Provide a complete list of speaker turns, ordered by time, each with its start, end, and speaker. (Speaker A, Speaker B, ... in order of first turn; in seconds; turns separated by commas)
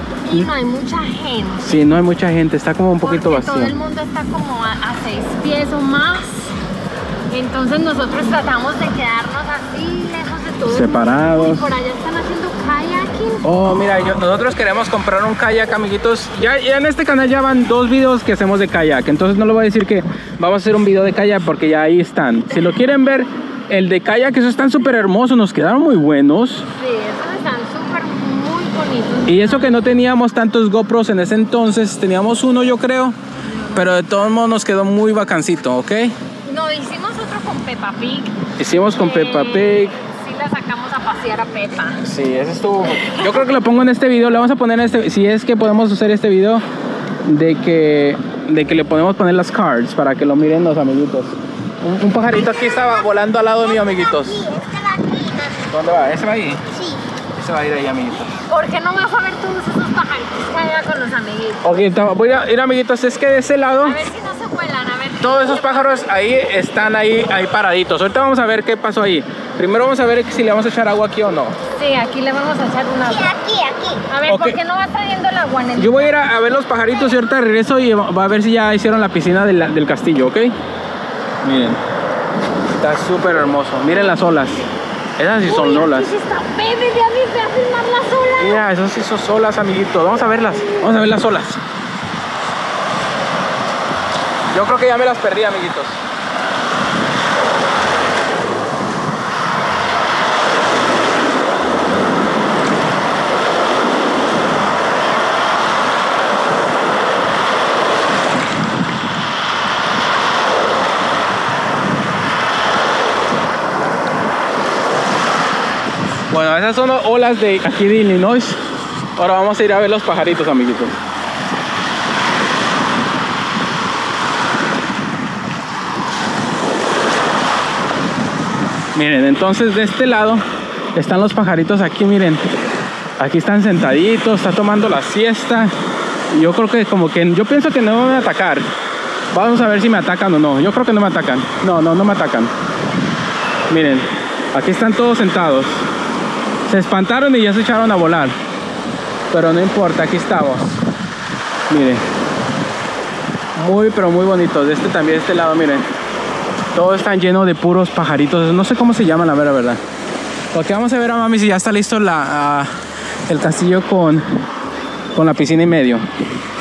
Speaker A: 0.3-1.8, Speaker B: 1.6-3.8, Speaker A: 3.0-6.5, Speaker A: 7.3-13.4, Speaker B: 10.7-11.7, Speaker B: 13.4-26.7, Speaker A: 26.8-29.8, Speaker B: 29.3-33.2, Speaker B: 33.7-36.2, Speaker A: 36.5-42.0, Speaker B: 38.6-39.9, Speaker B: 42.0-46.6, Speaker B: 47.2-54.4, Speaker C: 52.5-55.8, Speaker B: 55.7-56.6, Speaker C: 56.7-57.0, Speaker B: 57.4-58.4, Speaker A: 58.5-61.7, Speaker B: 61.6-64.0, Speaker A: 63.8-66.0, Speaker B: 65.2-71.6, Speaker A: 71.8-73.3, Speaker C: 73.0-74.0, Speaker A: 74.1-76.2, Speaker B: 74.3-74.6, Speaker B: 75.8-80.6, Speaker B: 81.4-81.8, Speaker B: 82.7-84.6, Speaker B: 85.2-86.1, Speaker A: 85.5-88.7, Speaker B: 88.4-91.6, Speaker B: 94.5-96.0, Speaker B: 116.3-118.6, Speaker B: 119.2-121.0, Speaker B: 128.9-130.4, Speaker B: 130.9-132.4, Speaker B: 133.2-135.7, Speaker B: 136.3-138.7, Speaker B: 139.3-142.5, Speaker B: 143.7-145.8, Speaker B: 146.7-148.3, Speaker B: 149.3-150.8, Speaker B: 151.7-152.0, Speaker B: 153.6-155.9, Speaker B: 156.8-159.8, Speaker B: 160.5-162.7, Speaker B: 163.3-164.4, Speaker B: 165.2-166.1